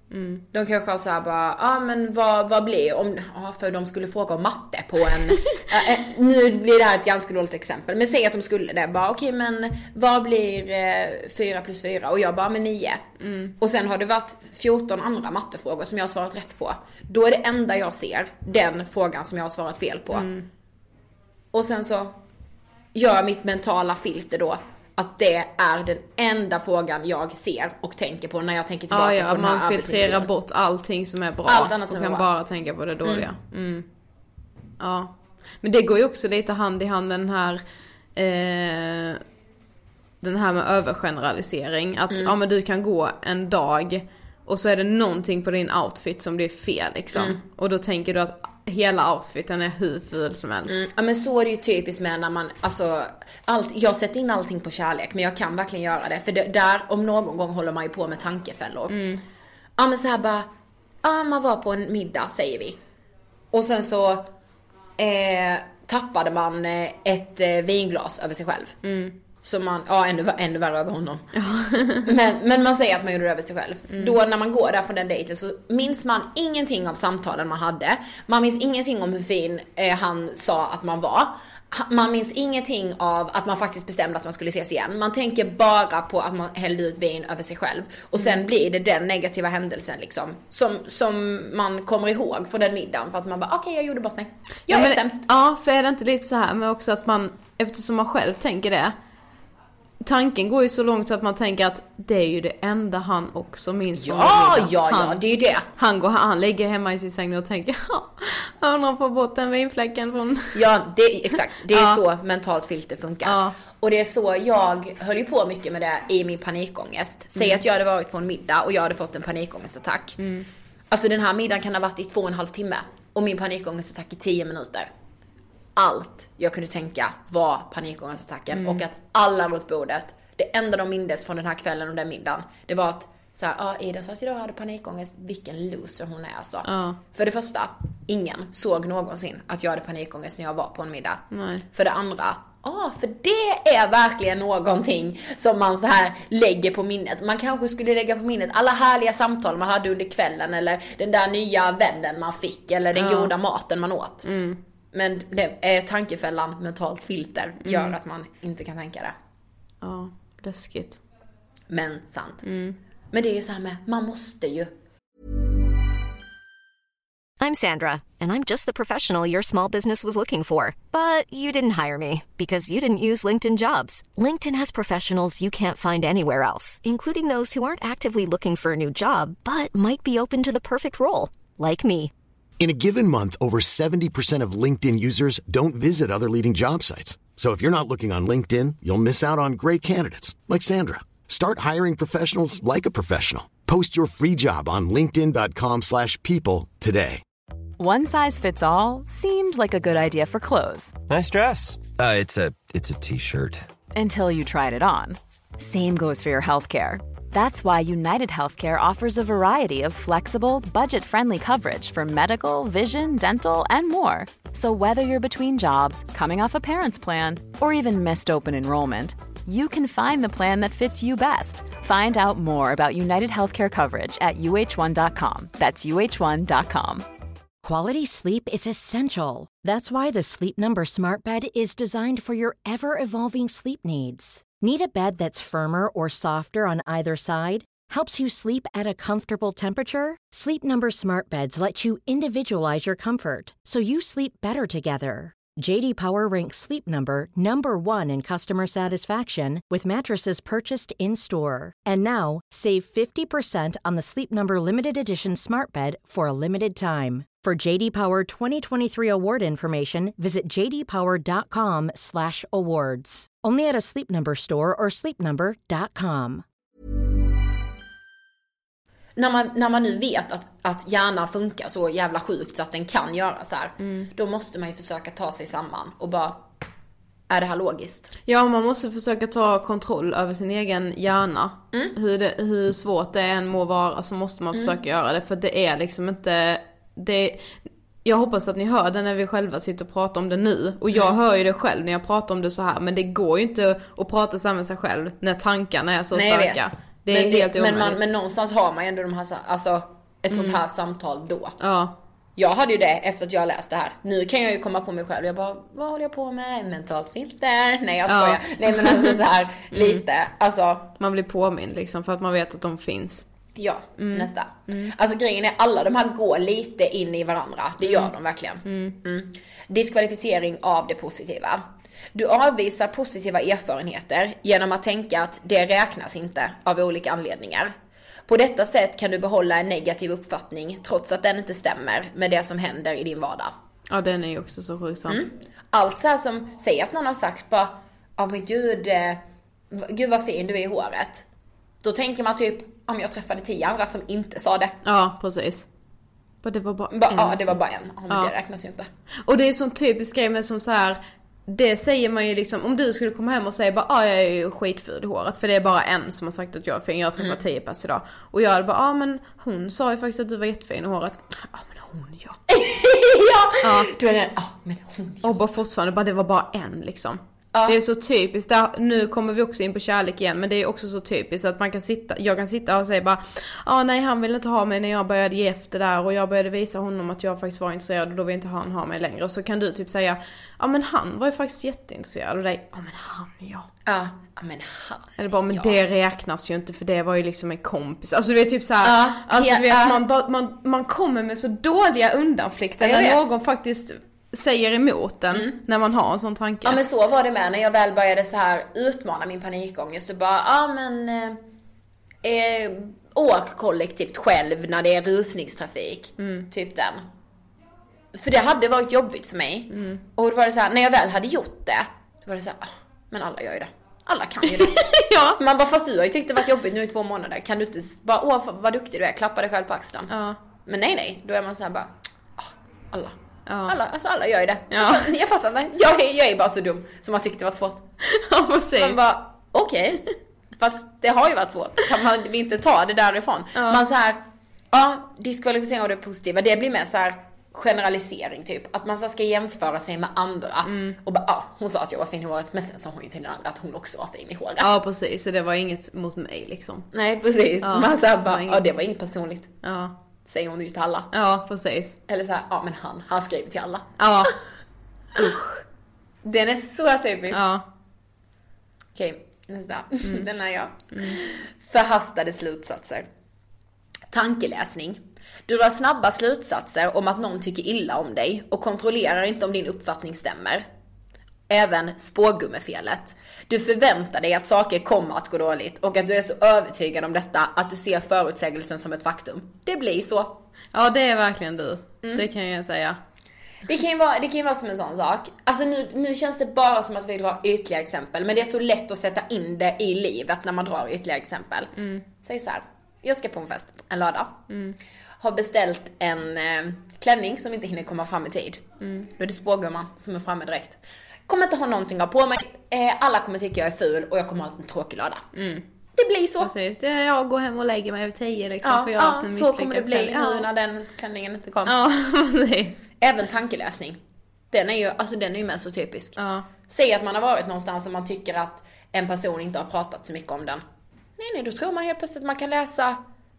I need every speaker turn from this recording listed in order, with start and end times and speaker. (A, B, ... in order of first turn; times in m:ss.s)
0:00.1-0:00.4 A
0:00.5-0:13.0 B
0:13.2-0:13.5 A
0:13.6-0:20.3 B
0:20.1-0:20.5 A
0:21.5-0:22.2 B
0:22.9-0:30.3 B
0:28.9-0:33.9 A
0:31.4-0:32.3 B
0:34.8-0:37.6 A
0:38.2-0:39.2 A
0:40.2-0:50.8 A
0:50.7-0:59.0 B
0:58.9-0:59.2 A
0:59.8-1:00.5 B
1:01.0-1:02.8 B
1:03.5-1:04.3 B
1:05.0-1:08.8 B
1:08.8-1:09.2 A
1:09.4-1:11.2 B
1:11.3-1:12.1 A
1:12.0-1:35.2 B
1:13.9-1:14.1 A
1:34.7-1:38.9 A
1:40.0-1:45.2 A
1:44.0-1:45.7 B
1:45.7-1:50.6 A
1:50.5-2:00.2 B
1:51.7-1:52.0 A
1:53.2-1:53.6 A
2:00.2-2:00.4 A
2:00.9-2:04.9 B
2:05.8-2:34.2 B
2:08.5-2:08.8 A
2:16.6-2:17.0 A
2:21.3-2:21.6 A
2:32.9-2:33.3 A
2:34.2-2:34.6 A
2:34.9-2:39.1 B
2:37.6-2:37.9 A
2:39.8-2:41.0 A
2:41.7-2:42.4 B
2:42.4-2:42.8 A
2:43.1-2:44.7 B
2:47.4-3:02.1 C
3:02.6-3:17.2 D
3:17.8-3:20.9 E
3:21.1-3:23.5 F
3:23.9-3:47.0 E
3:47.6-4:26.4 G
4:29.2-4:36.4 B
4:33.8-4:34.1 A
4:37.3-4:38.1 B
4:38.2-4:47.5 A
4:48.0-4:58.0 A
4:56.1-5:01.6 B
5:00.3-5:00.6 A
5:01.6-5:02.0 A
5:02.4-5:10.9 B
5:08.1-5:09.2 A
5:09.7-5:10.0 A
5:11.0-5:13.2 A
5:13.6-5:21.6 B
5:14.0-5:14.9 A
5:17.8-5:18.1 A
5:18.6-5:19.0 A
5:22.1-5:27.7 B
5:28.2-5:33.5 B
5:33.9-5:35.2 A
5:35.1-5:39.2 B
5:39.7-5:41.2 B
5:41.8-5:44.8 B
5:44.8-5:45.7 A
5:46.4-5:47.6 A
5:46.9-5:48.9 B
5:49.2-6:02.4 A
6:02.5-6:05.4 B
6:03.6-6:03.9 A
6:05.2-6:23.7 A
6:07.5-6:07.8 B
6:23.8-6:25.8 B
6:25.2-6:36.8 A
6:28.8-6:30.0 B
6:32.8-6:33.2 B
6:36.6-6:41.4 B
6:42.2-6:47.0 B
6:46.2-6:46.5 A
6:48.1-7:00.1 B
6:49.7-6:50.0 A
6:54.6-6:55.4 A
7:00.1-7:00.4 A
7:00.6-7:03.2 B
7:03.5-7:03.7 A
7:03.7-7:07.8 B
7:04.7-7:05.1 A
7:08.0-7:09.0 A
7:08.8-7:24.7 B
7:13.5-7:13.8 A
7:20.6-7:21.0 A
7:24.6-7:26.9 A
7:26.9-7:29.5 B
7:27.6-7:28.6 A
7:29.6-7:30.0 A
7:30.2-7:31.1 B
7:31.1-7:32.0 A
7:32.1-7:33.9 B
7:34.0-7:34.3 A
7:35.2-7:35.6 A
7:36.2-7:37.4 B
7:37.3-7:37.6 A
7:38.9-7:43.0 B
7:40.9-7:41.2 A
7:44.1-7:50.6 B
7:51.5-8:00.4 B
8:00.7-8:03.0 A
8:03.6-8:14.4 B
8:11.8-8:12.0 A
8:14.5-8:14.8 A
8:15.2-8:25.2 B
8:18.8-8:19.0 A
8:25.3-8:25.6 A
8:26.0-8:26.5 B
8:26.4-8:30.4 A
8:28.6-8:31.7 B
8:31.6-8:32.9 A
8:33.0-8:34.0 B
8:34.5-8:36.2 B
8:36.2-8:36.5 A
8:36.7-8:40.6 B
8:41.2-8:43.0 B